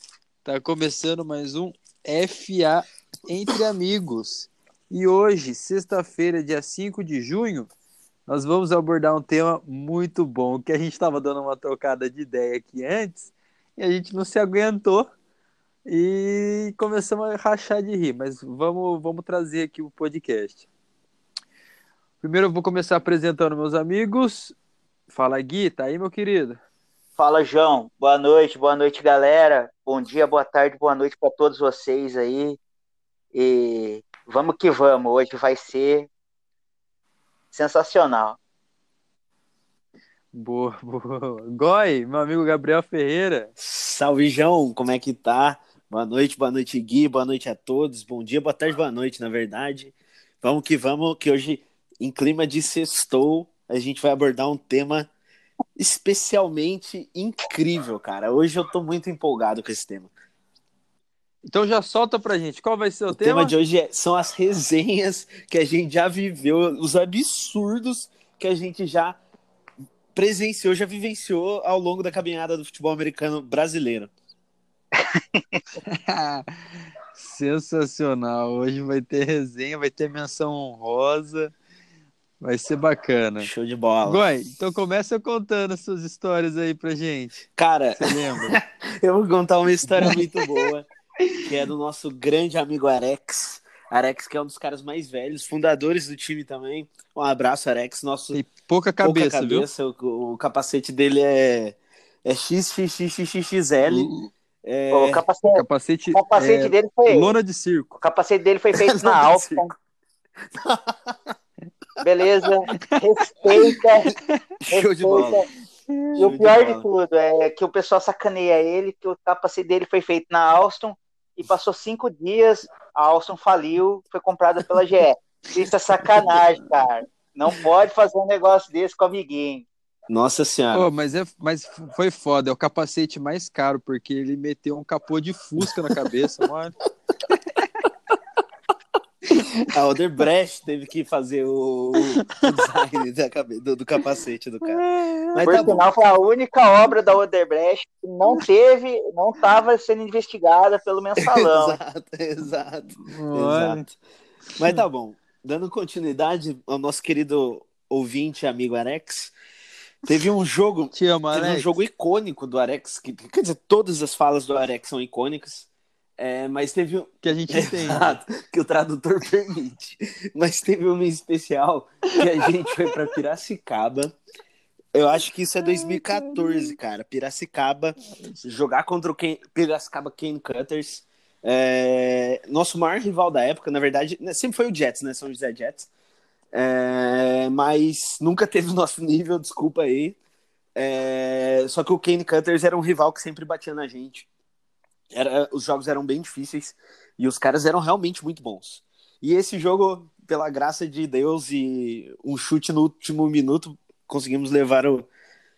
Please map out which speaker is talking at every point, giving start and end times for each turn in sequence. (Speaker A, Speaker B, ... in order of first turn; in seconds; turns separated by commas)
Speaker A: 0.4-7.7, Speaker A: 8.3-15.1, Speaker A: 15.8-20.6, Speaker A: 22.2-24.5, Speaker A: 25.1-26.6, Speaker B: 27.2-32.6, Speaker B: 33.3-36.1, Speaker B: 37.5-38.4, Speaker A: 40.3-43.5, Speaker C: 43.6-55.1, Speaker C: 55.8-60.1, Speaker A: 61.4-63.5, Speaker C: 63.1-69.2, Speaker C: 70.1-74.1, Speaker B: 75.0-75.6, Speaker A: 75.8-76.5, Speaker A: 77.1-81.5, Speaker A: 82.4-83.5, Speaker C: 83.4-84.2, Speaker A: 84.0-87.4, Speaker C: 87.5-90.8, Speaker A: 88.0-88.6, Speaker C: 91.4-98.4, Speaker A: 98.3-99.7, Speaker C: 99.0-104.1, Speaker A: 103.8-104.3, Speaker C: 104.6-105.2, Speaker B: 104.9-107.3, Speaker A: 105.5-108.0, Speaker B: 108.0-109.7, Speaker C: 108.8-109.7, Speaker C: 110.5-111.3, Speaker B: 112.0-114.1, Speaker A: 112.7-113.0, Speaker A: 113.5-113.8, Speaker C: 114.1-115.5, Speaker B: 114.7-115.5, Speaker A: 115.9-116.3, Speaker B: 116.2-129.7, Speaker C: 116.2-116.8, Speaker C: 130.1-130.9, Speaker A: 130.7-136.7, Speaker C: 135.6-136.0, Speaker A: 137.3-137.8, Speaker C: 139.4-145.9, Speaker A: 144.6-145.8, Speaker B: 145.4-151.8, Speaker C: 151.2-153.9, Speaker A: 153.0-153.9, Speaker C: 154.6-159.3, Speaker C: 160.1-165.7, Speaker A: 160.9-161.7, Speaker C: 166.2-174.2, Speaker A: 167.2-168.1, Speaker C: 174.9-185.9, Speaker A: 175.8-176.7, Speaker C: 186.5-190.2, Speaker C: 190.8-194.3, Speaker C: 195.1-205.1